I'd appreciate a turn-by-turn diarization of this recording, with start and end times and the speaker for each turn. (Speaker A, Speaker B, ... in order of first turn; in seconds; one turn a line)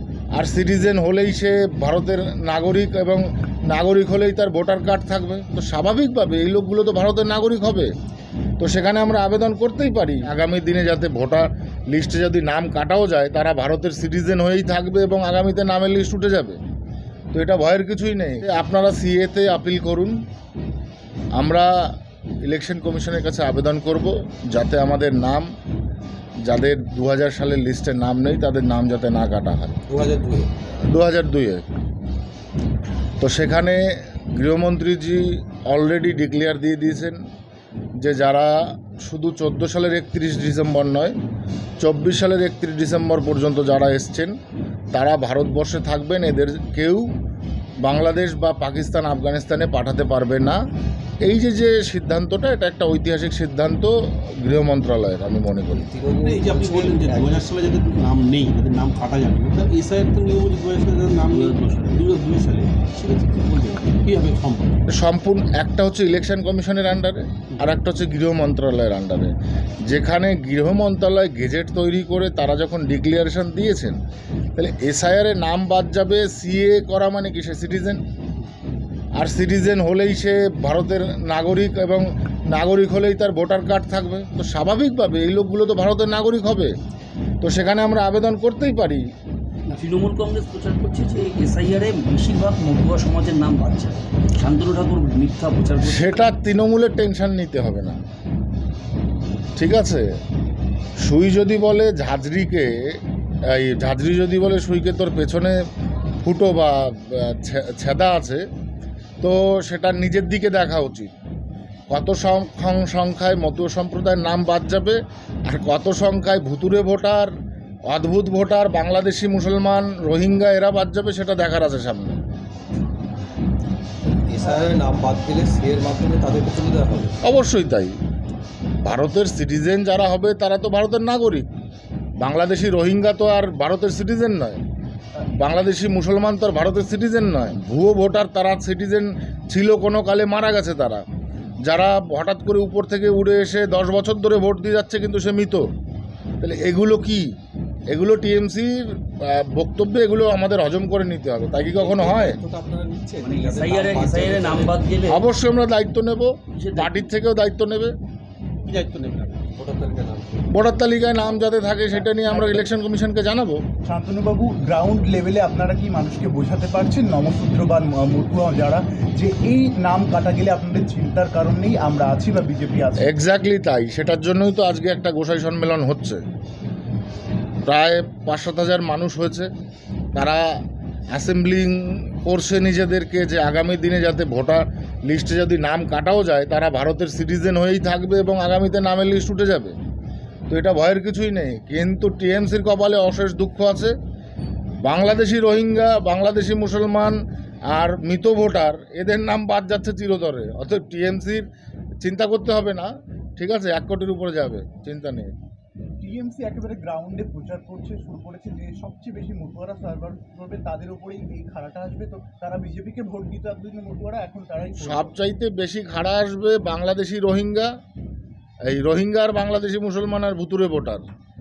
Speaker A: 0.3-7.9
Speaker A: 8.6-16.6
Speaker A: 17.3-20.2
Speaker A: 21.3-25.5
Speaker A: 26.4-29.8
Speaker B: 29.9-30.5
Speaker A: 30.9-31.6
Speaker A: 33.2-37.2
Speaker A: 38.0-41.1
Speaker A: 41.8-44.3
Speaker A: 44.9-47.1
Speaker A: 47.8-50.6
Speaker A: 51.2-55.9
Speaker B: 55.7-57.4
Speaker C: 56.2-64.8
Speaker D: 61.2-62.0
Speaker A: 64.9-74.0
Speaker A: 74.5-78.0
Speaker A: 79.2-86.7
Speaker A: 87.4-89.0
Speaker D: 89.8-96.3
Speaker A: 95.8-98.0
Speaker A: 99.5-100.1
Speaker A: 101.0-105.6
Speaker A: 106.2-108.5
Speaker A: 109.2-111.1
Speaker A: 111.9-117.3
Speaker A: 117.9-122.2
Speaker B: 124.2-127.1
Speaker A: 127.2-128.0
Speaker A: 128.8-131.5
Speaker A: 132.2-134.6
Speaker A: 135.3-141.0
Speaker A: 141.7-145.7
Speaker A: 146.4-147.3
Speaker A: 147.9-152.4
Speaker B: 151.7-154.7
Speaker D: 153.2-155.2
Speaker A: 155.1-157.9
Speaker D: 156.5-157.1
Speaker C: 158.6-159.5
Speaker B: 159.5-160.5
Speaker A: 160.5-163.6
Speaker E: 162.3-162.6
Speaker E: 163.8-173.1
Speaker A: 173.0-176.2
Speaker A: 177.7-179.5
Speaker A: 180.1-180.4
Speaker A: 181.1-189.7
Speaker A: 190.5-193.9
Speaker A: 194.8-197.2
Speaker A: 197.7-201.5
Speaker A: 202.0-205.3
Speaker E: 206.0-215.1
Speaker A: 214.8-217.7
Speaker A: 218.7-221.0